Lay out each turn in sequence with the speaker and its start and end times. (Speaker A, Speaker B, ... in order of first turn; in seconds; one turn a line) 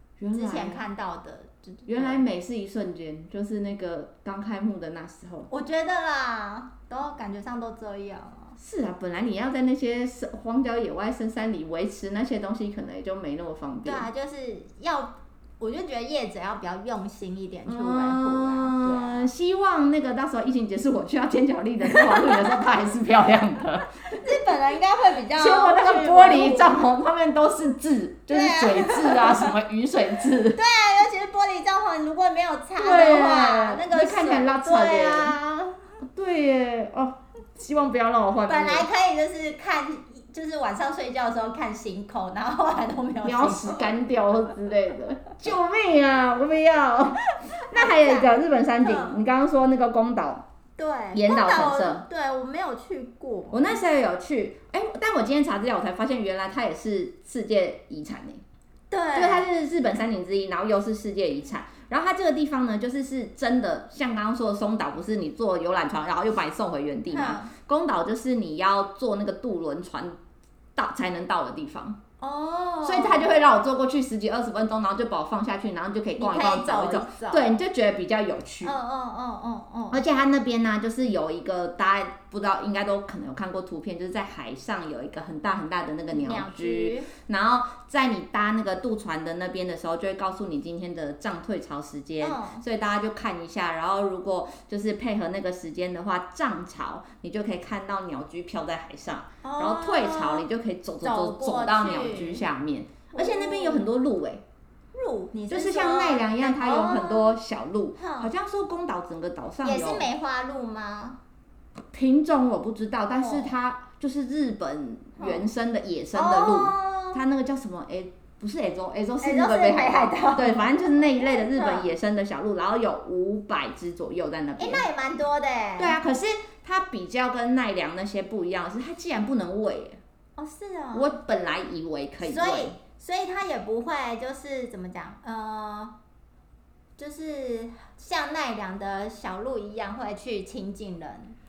Speaker A: 0.2-0.8
Speaker B: 0.3-2.2
Speaker A: 1.9-5.5
Speaker B: 5.5-8.6
Speaker A: 8.6-14.1
Speaker B: 13.8-19.3
Speaker A: 17.7-24.3
Speaker B: 21.9-22.6
Speaker B: 24.1-26.9
Speaker A: 25.4-30.6
Speaker B: 28.3-29.5
Speaker B: 30.5-35.8
Speaker A: 32.8-35.4
Speaker A: 36.1-38.9
Speaker B: 38.5-44.0
Speaker A: 43.2-50.5
Speaker B: 47.4-49.2
Speaker B: 50.8-53.8
Speaker A: 51.1-52.0
Speaker A: 53.5-58.4
Speaker B: 58.9-59.5
Speaker A: 59.1-70.2
Speaker B: 67.1-67.5
Speaker A: 70.8-72.0
Speaker B: 72.2-73.4
Speaker A: 72.8-78.7
Speaker B: 76.2-77.6
Speaker B: 78.6-80.0
Speaker A: 79.9-104.4
Speaker B: 86.1-87.1
Speaker B: 92.2-92.6
Speaker B: 99.4-100.5
Speaker B: 101.0-102.5
Speaker B: 103.1-103.9
Speaker B: 104.9-107.4
Speaker A: 105.5-110.1
Speaker B: 108.0-108.3
Speaker B: 109.6-111.2
Speaker A: 111.9-124.8
Speaker B: 113.2-113.5
Speaker B: 115.2-115.5
Speaker B: 116.1-117.2
Speaker B: 119.2-121.9
Speaker B: 124.6-126.0
Speaker A: 125.8-130.0
Speaker B: 130.4-131.1
Speaker A: 130.9-132.8
Speaker B: 132.2-135.9
Speaker B: 137.0-141.4